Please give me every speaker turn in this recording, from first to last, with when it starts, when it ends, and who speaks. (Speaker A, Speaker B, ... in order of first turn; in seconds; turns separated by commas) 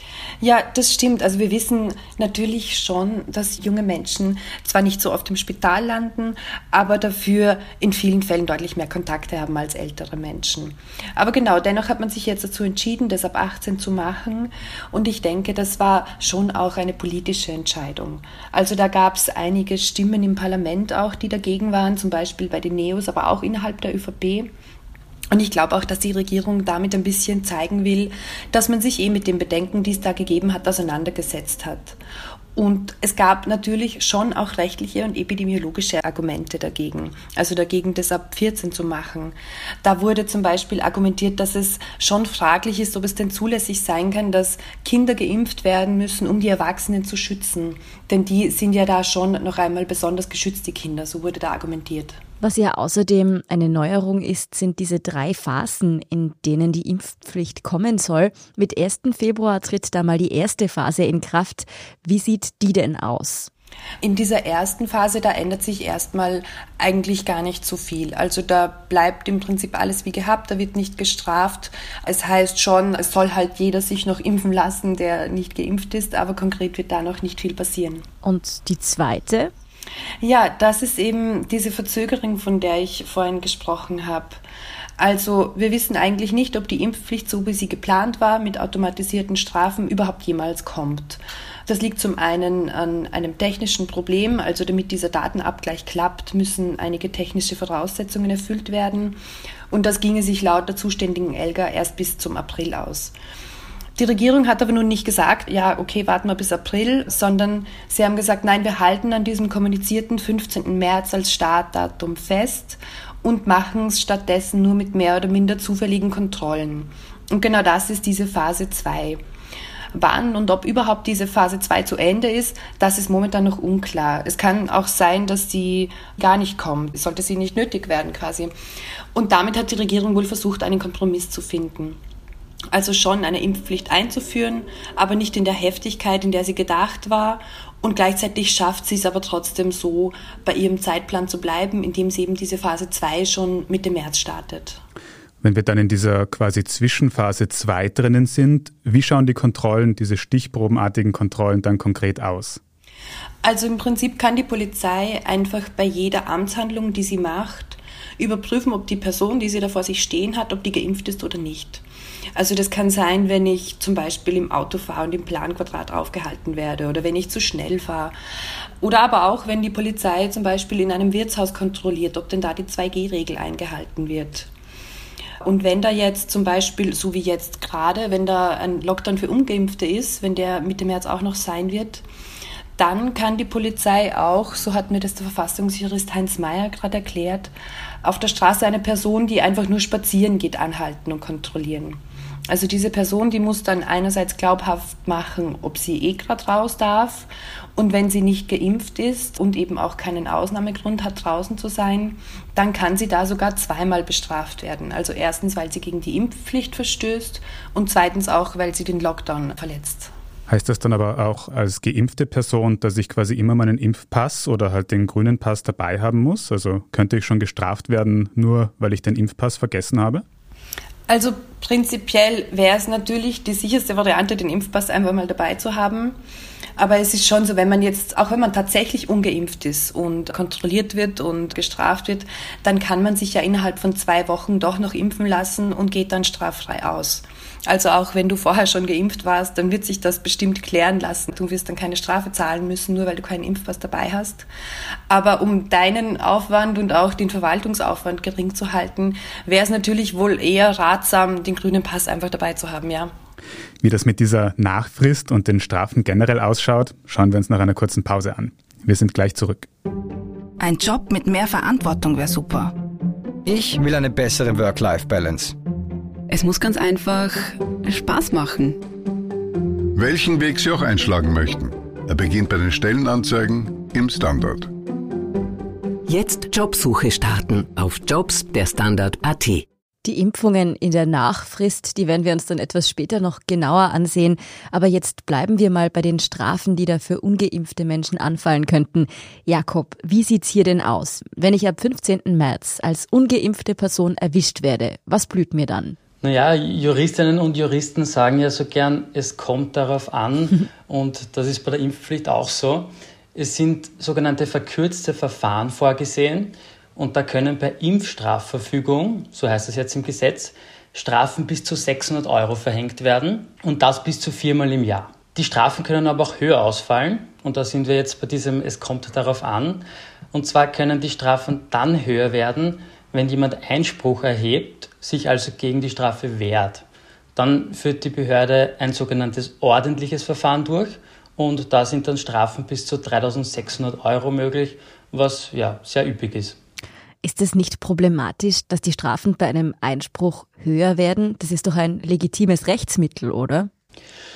Speaker A: 0.4-24.5, Speaker A: 25.3-32.0, Speaker A: 32.6-52.2, Speaker B: 52.4-63.5, Speaker A: 64.0-78.0, Speaker B: 78.2-79.5, Speaker A: 80.2-84.4, Speaker A: 85.0-99.2, Speaker A: 99.7-103.1, Speaker A: 104.0-119.2, Speaker A: 120.0-128.5, Speaker A: 129.2-132.0, Speaker A: 132.7-144.8, Speaker C: 145.4-152.6, Speaker A: 153.4-161.8, Speaker A: 162.3-168.1, Speaker A: 168.8-174.5, Speaker A: 175.4-182.0, Speaker A: 182.8-210.1, Speaker C: 210.5-220.2, Speaker A: 221.1-226.2, Speaker A: 226.8-244.5, Speaker A: 245.1-253.1, Speaker C: 253.8-259.7, Speaker D: 260.6-262.7, Speaker E: 263.5-265.6, Speaker F: 266.3-268.8, Speaker G: 270.0-274.7, Speaker H: 276.1-279.7, Speaker B: 280.0-296.0, Speaker I: 296.2-326.8, Speaker I: 327.4-336.6, Speaker B: 337.2-343.7